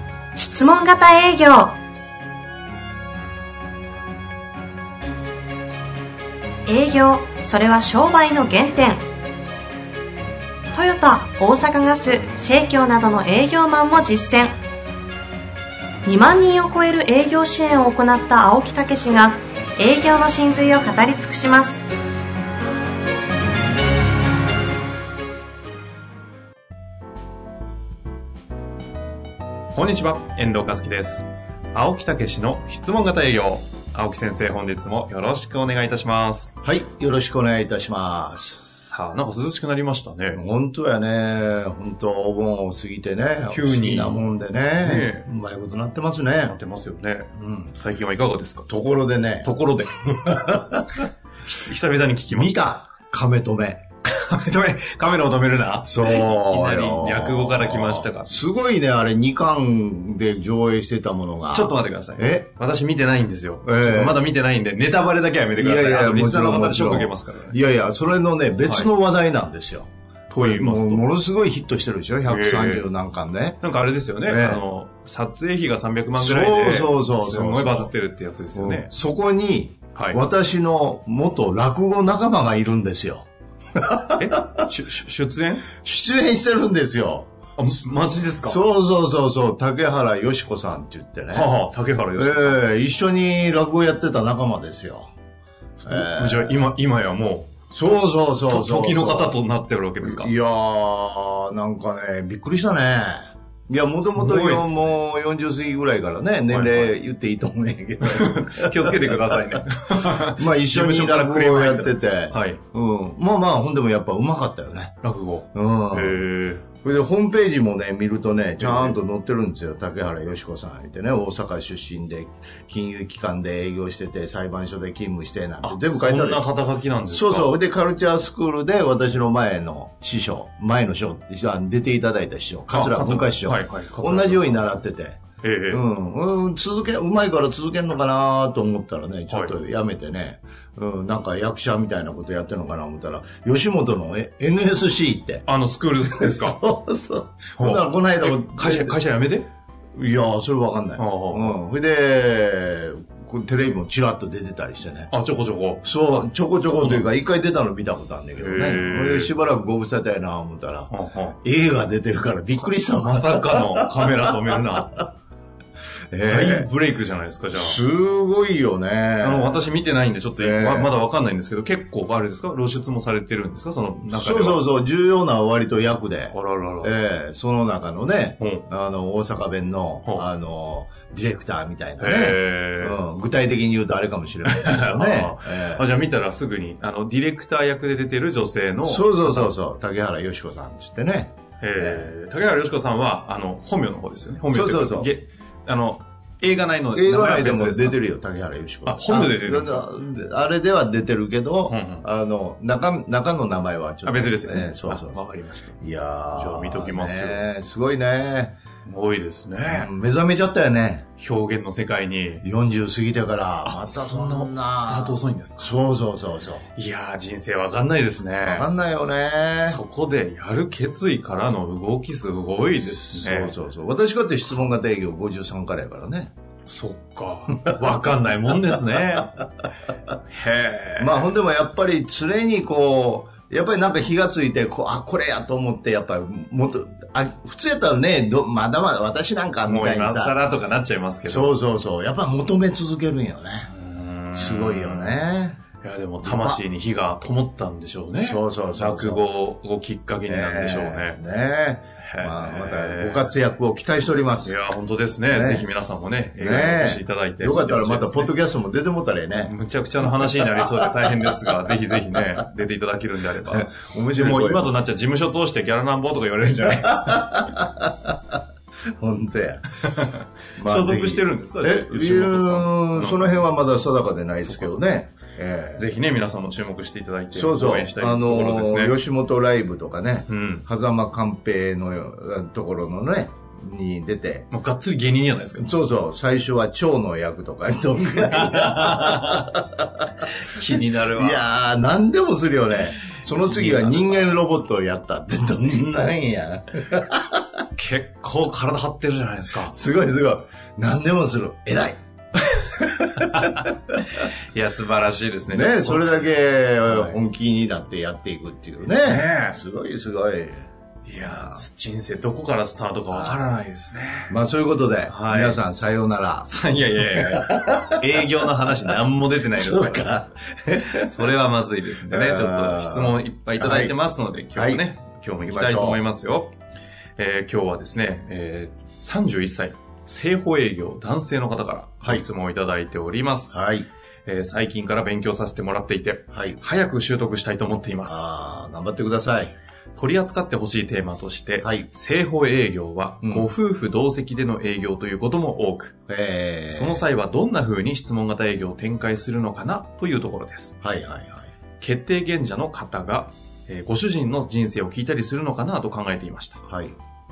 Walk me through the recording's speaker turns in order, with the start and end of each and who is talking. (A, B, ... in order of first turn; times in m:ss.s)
0:00.4-0:01.7 A
0:06.7-0:09.0 A
0:10.7-0:14.5 A
0:16.0-0:21.7 A
0:29.7-0:36.5 B
0:36.6-0:38.6 C
0:38.6-0:40.4 B
0:40.3-0:46.6 C
0:43.5-0:44.2 B
0:44.8-0:45.3 B
0:46.4-0:48.7 B
0:47.4-0:47.8 C
0:48.7-0:49.5 C
0:49.4-0:50.8 B
0:50.3-0:50.8 C
0:51.4-0:52.6 B
0:52.3-0:53.8 C
0:54.0-0:58.4 B
0:55.8-1:02.5 C
1:01.5-1:07.6 B
1:03.6-1:04.2 C
1:05.6-1:13.6 C
1:08.6-1:08.9 B
1:10.3-1:11.0 B
1:12.2-1:12.9 B
1:13.6-1:18.9 B
1:14.2-1:14.6 C
1:16.2-1:17.9 C
1:18.5-1:23.2 C
1:19.9-1:20.2 B
1:23.8-1:24.6 C
1:24.1-1:25.7 B
1:25.7-1:27.3 C
1:27.6-1:28.6 B
1:28.4-1:31.5 C
1:31.3-1:32.6 B
1:32.2-1:35.1 C
1:35.8-1:37.5 B
1:35.8-1:36.6 C
1:37.7-1:39.4 C
1:38.5-1:40.3 B
1:40.0-1:49.4 C
1:44.0-1:45.0 B
1:46.5-1:46.9 B
1:48.0-1:52.6 B
1:50.2-1:55.0 C
1:55.0-1:56.7 B
1:55.5-1:56.2 C
1:56.8-2:06.4 C
1:58.6-1:59.0 B
2:05.6-2:07.6 B
2:07.1-2:15.2 C
2:12.7-2:14.7 B
2:15.4-2:15.8 B
2:15.7-2:25.4 C
2:19.3-2:19.6 B
2:25.4-2:26.6 B
2:26.0-2:29.0 C
2:27.6-2:29.5 B
2:29.9-2:35.1 C
2:31.0-2:31.6 B
2:35.1-2:35.9 B
2:35.8-2:44.8 C
2:36.7-2:37.2 B
2:38.4-2:39.3 B
2:40.9-2:41.4 B
2:43.0-2:45.1 B
2:46.1-2:46.7 C
2:46.2-2:47.8 B
2:47.5-2:49.6 C
2:49.2-2:54.6 B
2:50.4-2:51.0 C
2:54.1-3:05.9 C
2:56.3-2:56.9 B
2:58.4-2:58.6 B
3:02.0-3:03.0 B
3:04.4-3:09.5 B
3:08.8-3:12.1 C
3:11.6-3:18.0 B
3:14.5-3:15.1 C
3:16.9-3:25.2 C
3:18.8-3:19.9 B
3:21.6-3:22.0 B
3:24.0-3:25.8 B
3:25.8-3:28.6 C
3:26.3-3:27.4 B
3:28.8-3:29.9 B
3:29.6-3:31.0 C
3:31.2-3:32.4 B
3:32.4-3:36.7 C
3:33.6-3:35.8 B
3:36.7-3:38.7 B
3:38.4-3:39.8 C
3:39.6-3:43.6 B
3:42.8-3:46.3 C
3:46.7-3:49.4 B
3:50.3-3:51.3 B
3:51.0-4:00.4 C
3:59.6-4:01.5 B
4:01.2-4:03.7 C
4:03.7-4:05.2 B
4:04.3-4:05.6 C
4:05.8-4:11.2 B
4:06.2-4:06.6 C
4:08.1-4:09.3 C
4:10.3-4:14.6 C
4:12.0-4:13.3 B
4:14.4-4:18.3 B
4:15.3-4:15.7 C
4:16.4-4:21.2 C
4:19.4-4:27.5 B
4:23.4-4:24.8 C
4:26.6-4:28.2 C
4:29.0-4:29.8 C
4:29.8-4:33.4 B
4:30.6-4:35.9 C
4:34.4-4:34.9 B
4:35.8-4:39.0 B
4:37.3-4:44.5 C
4:40.3-4:40.6 B
4:44.5-4:45.8 B
4:45.6-4:50.1 C
4:48.3-4:49.5 B
4:50.2-4:51.5 B
4:50.8-4:57.4 C
4:53.3-4:54.3 B
4:57.7-4:59.8 B
4:59.6-5:02.0 C
5:02.8-5:07.2 B
5:03.2-5:03.6 C
5:05.5-5:11.6 C
5:09.0-5:09.6 B
5:11.0-5:14.3 B
5:13.1-5:13.4 C
5:14.3-5:18.9 C
5:15.1-5:15.6 B
5:16.4-5:26.5 B
5:19.6-5:21.2 C
5:22.1-5:24.0 C
5:24.5-5:24.8 C
5:25.4-5:26.0 C
5:27.2-5:33.6 B
5:33.5-5:33.8 C
5:34.2-5:38.3 B
5:36.3-5:36.6 C
5:38.0-5:39.6 C
5:40.0-5:45.9 B
5:41.6-5:41.9 C
5:43.2-5:43.5 C
5:46.1-5:47.0 C
5:46.7-5:50.7 B
5:50.8-5:51.5 C
5:51.8-5:56.6 B
5:56.6-5:57.0 C